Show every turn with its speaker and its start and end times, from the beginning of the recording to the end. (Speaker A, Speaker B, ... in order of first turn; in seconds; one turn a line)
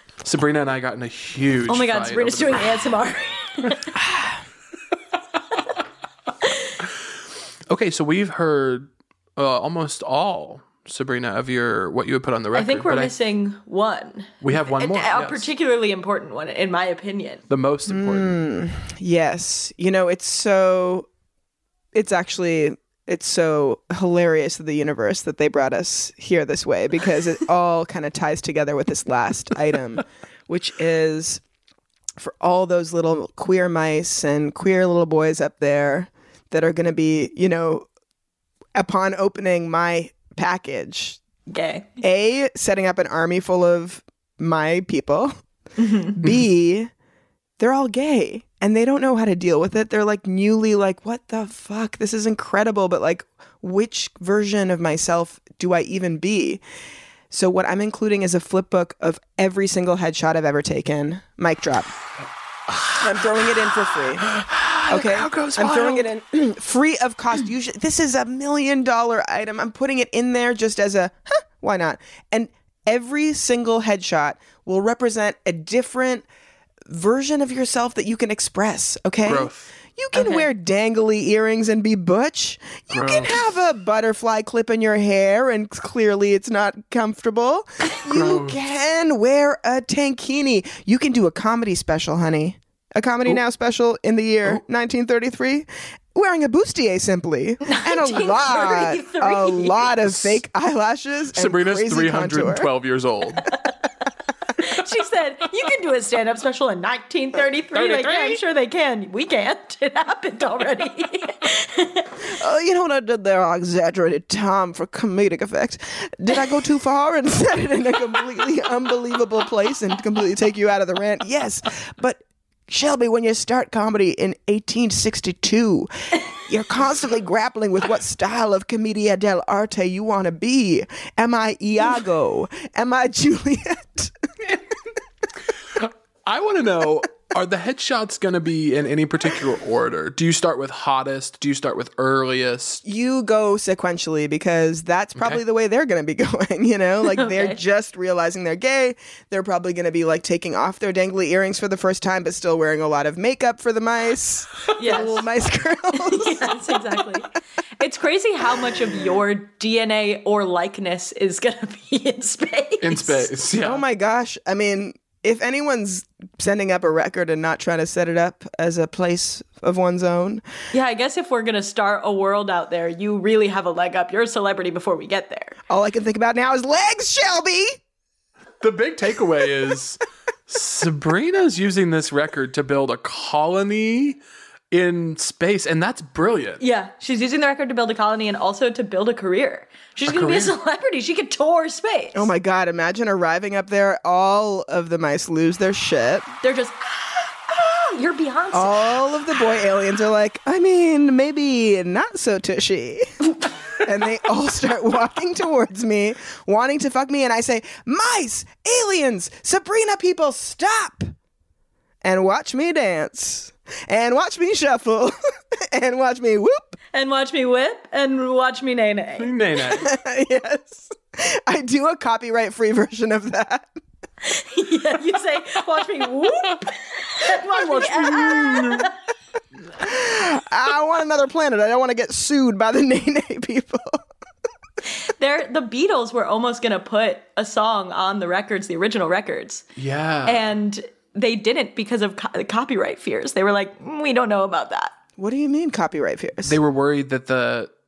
Speaker A: 0.2-2.9
Speaker B: 1.7-3.9
Speaker A: 7.7-13.1
Speaker B: 12.5-17.4
Speaker A: 14.4-15.5
Speaker A: 17.5-18.4
Speaker C: 17.9-21.1
Speaker C: 21.9-31.4
Speaker C: 32.2-37.9
Speaker C: 38.8-41.2
Speaker B: 41.5-42.0
Speaker C: 42.0-45.3
Speaker B: 45.8-46.2
Speaker C: 46.1-46.9
Speaker C: 47.6-56.6
Speaker C: 57.3-61.9
Speaker A: 62.7-63.0
Speaker C: 63.0-64.3
Speaker A: 64.2-66.1
Speaker C: 64.9-76.2
Speaker C: 76.8-102.7
Speaker A: 79.2-79.7
Speaker B: 80.1-80.5
Speaker A: 82.9-83.4
Speaker A: 88.1-88.6
Speaker B: 97.6-99.9
Speaker A: 100.1-100.4
Speaker A: 101.3-103.5
Speaker B: 104.6-112.1
Speaker A: 107.7-108.4
Speaker C: 112.2-134.1
Speaker A: 135.7-142.8
Speaker C: 142.8-157.0
Speaker A: 145.2-145.4
Speaker B: 147.1-147.6
Speaker B: 154.8-155.2
Speaker B: 156.0-163.3
Speaker A: 162.8-163.8
Speaker C: 163.6-170.4
Speaker B: 170.7-175.5
Speaker C: 175.7-177.8
Speaker A: 178.6-184.2
Speaker A: 184.7-186.6
Speaker B: 186.6-192.3
Speaker A: 190.1-190.5
Speaker C: 192.1-196.3
Speaker B: 196.4-198.9
Speaker C: 198.5-203.1
Speaker C: 203.8-211.1
Speaker C: 212.0-216.8
Speaker B: 216.9-219.3
Speaker A: 219.2-219.9
Speaker C: 219.7-223.7
Speaker B: 224.2-228.9
Speaker A: 227.2-228.9
Speaker C: 229.8-234.0
Speaker B: 235.0-239.6
Speaker A: 239.8-240.5
Speaker B: 240.2-244.9
Speaker C: 245.2-246.6
Speaker A: 246.4-247.7